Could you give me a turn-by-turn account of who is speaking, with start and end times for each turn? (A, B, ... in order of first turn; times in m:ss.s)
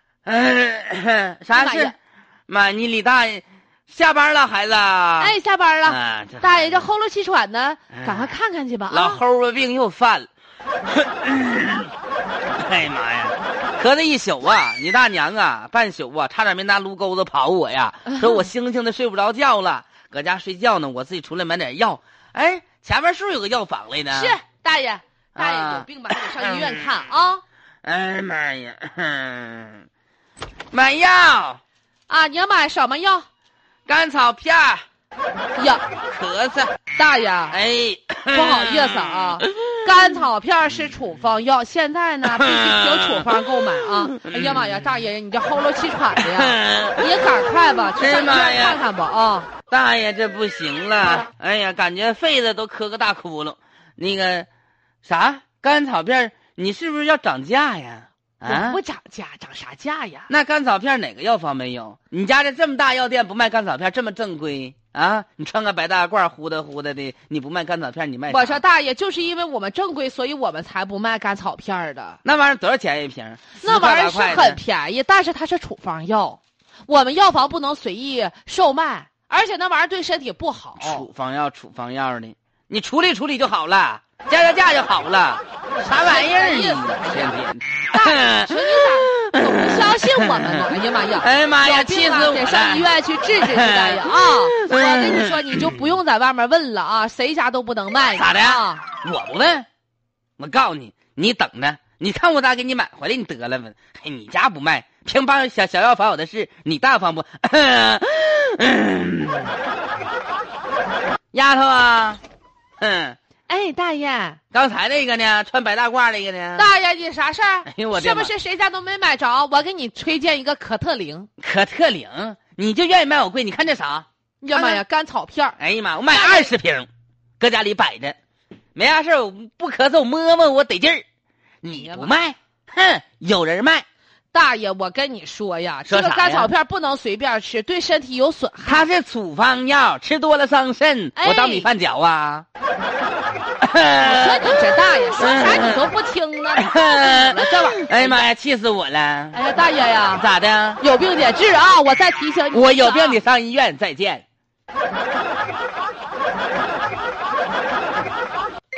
0:00.2-0:01.9 A
0:01.5-0:01.9 B
0:02.5-0:06.9 A
0:05.2-0:09.2 B
0:07.9-0:08.4 A
0:08.9-0:10.3 A
0:10.9-0:11.9 A
0:12.6-0:24.3 A
0:18.1-0:18.4 B
0:24.1-0:27.4 B
0:25.4-0:26.8 A
0:27.8-0:29.9 A
0:30.7-0:31.6 A
0:32.1-0:33.3 B
0:33.9-0:34.8 A
0:35.6-0:35.8 B
0:36.1-0:36.8 A
0:36.9-0:37.6 B
0:37.5-0:40.1 A
0:38.3-0:49.5 B
0:42.3-0:45.0 A
0:46.2-0:47.1 A
0:48.0-0:48.8 A
0:49.7-0:54.5 A
0:55.0-0:58.8 A
0:58.4-1:00.3 B
1:00.3-1:08.6 A
1:08.3-1:12.2 B
1:12.2-1:14.6 A
1:13.6-1:21.1 B
1:20.8-1:32.9 A
1:25.8-1:27.4 B
1:27.9-1:38.8 B
1:33.4-1:35.8 A
1:38.1-1:39.7 A
1:40.4-1:49.6 A
1:51.3-1:52.2 A
1:52.8-1:53.2 A
1:53.5-1:54.4 B
1:54.5-1:56.7 A
1:56.6-2:01.3 B
1:57.7-1:58.3 A
2:01.4-2:04.8 A
2:04.4-2:05.6 B
2:05.6-2:06.9 A
2:06.1-2:06.5 B
2:07.4-2:08.2 A
2:08.8-2:11.0 A
2:11.6-2:13.9 A
2:11.7-2:12.1 B
2:14.3-2:18.9 B
2:15.9-2:16.5 A
2:18.7-2:22.4 A
2:21.2-2:21.7 B
2:23.6-2:25.8 A
2:24.0-2:28.3 B
2:26.6-2:29.4 A
2:29.3-2:30.3 B
2:30.2-2:30.8 A
2:30.8-2:33.2 B
2:32.5-2:34.2 A